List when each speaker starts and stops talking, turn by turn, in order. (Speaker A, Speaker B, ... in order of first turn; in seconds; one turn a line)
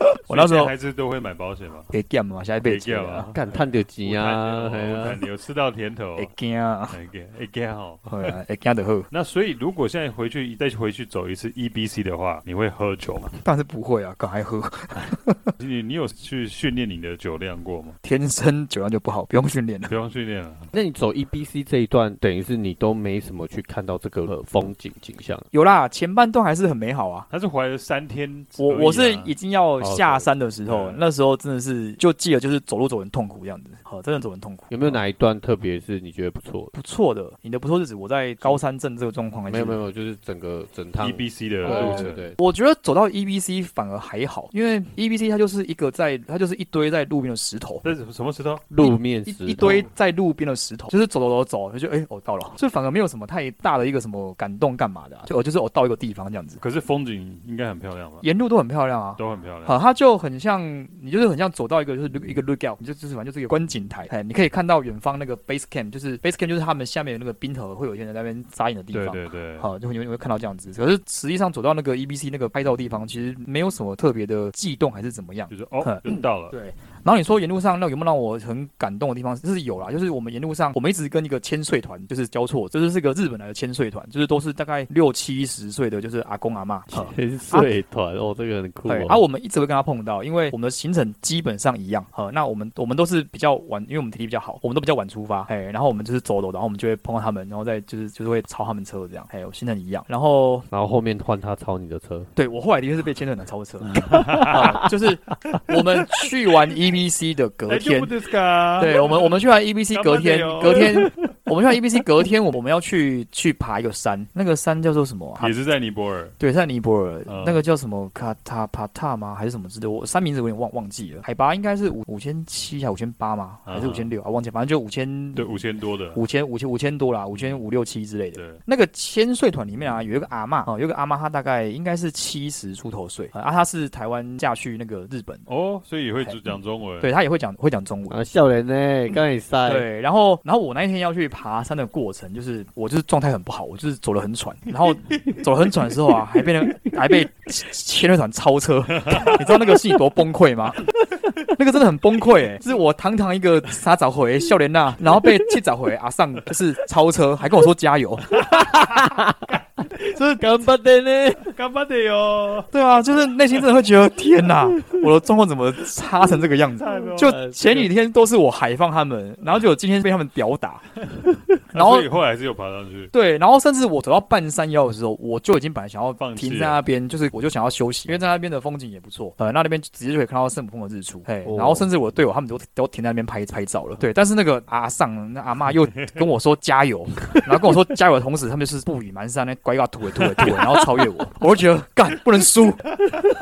Speaker A: 0.3-0.7
Speaker B: 0.3-1.9
Speaker A: 1.9-3.3
Speaker B: 2.6-6.3
Speaker C: 3.3-5.2
Speaker A: 6.2-7.0
Speaker B: 6.9-8.3
Speaker A: 8.1-9.1
Speaker B: 9.1-13.3
Speaker A: 13.3-15.5
Speaker B: 15.0-18.0
Speaker A: 18.0-19.9
Speaker B: 19.9-20.7
Speaker C: 20.7-25.4
Speaker A: 25.5-27.3
Speaker B: 27.3-29.3
Speaker A: 28.6-35.0
Speaker C: 29.8-30.2
Speaker B: 30.6-31.0
Speaker C: 34.7-36.7
Speaker A: 36.7-39.8
Speaker C: 39.5-42.4
Speaker B: 41.0-42.2
Speaker A: 41.6-47.9
Speaker B: 47.8-48.6
Speaker C: 48.7-49.9
Speaker A: 48.8-56.6
Speaker B: 49.6-49.8
Speaker B: 56.6-58.2
Speaker A: 58.2-87.7
Speaker B: 59.2-59.8
Speaker B: 68.9-69.7
Speaker B: 75.5-76.5
Speaker C: 86.9-89.2
Speaker A: 88.8-100.7
Speaker C: 100.7-102.3
Speaker A: 102.3-108.1
Speaker C: 103.9-104.9
Speaker B: 104.0-104.8
Speaker B: 107.7-109.3
Speaker A: 108.8-115.5
Speaker B: 109.9-111.2
Speaker B: 115.4-116.3
Speaker A: 116.4-125.6
Speaker B: 117.3-117.6
Speaker B: 123.7-124.1
Speaker B: 125.3-126.2
Speaker A: 126.1-135.5
Speaker B: 128.3-128.6
Speaker B: 135.5-137.1
Speaker A: 136.2-136.5
Speaker A: 137.0-138.2
Speaker C: 138.1-139.9
Speaker A: 139.7-150.8
Speaker B: 149.0-149.5
Speaker A: 151.4-158.3
Speaker B: 158.3-159.6
Speaker C: 158.4-159.6
Speaker A: 160.1-160.5
Speaker C: 160.4-161.5
Speaker B: 161.5-162.7
Speaker A: 162.7-170.8
Speaker B: 166.8-167.9
Speaker C: 167.2-167.6
Speaker B: 171.7-173.1
Speaker A: 171.7-172.1
Speaker A: 173.1-192.8
Speaker B: 176.2-176.8
Speaker C: 181.4-181.9
Speaker B: 190.2-190.8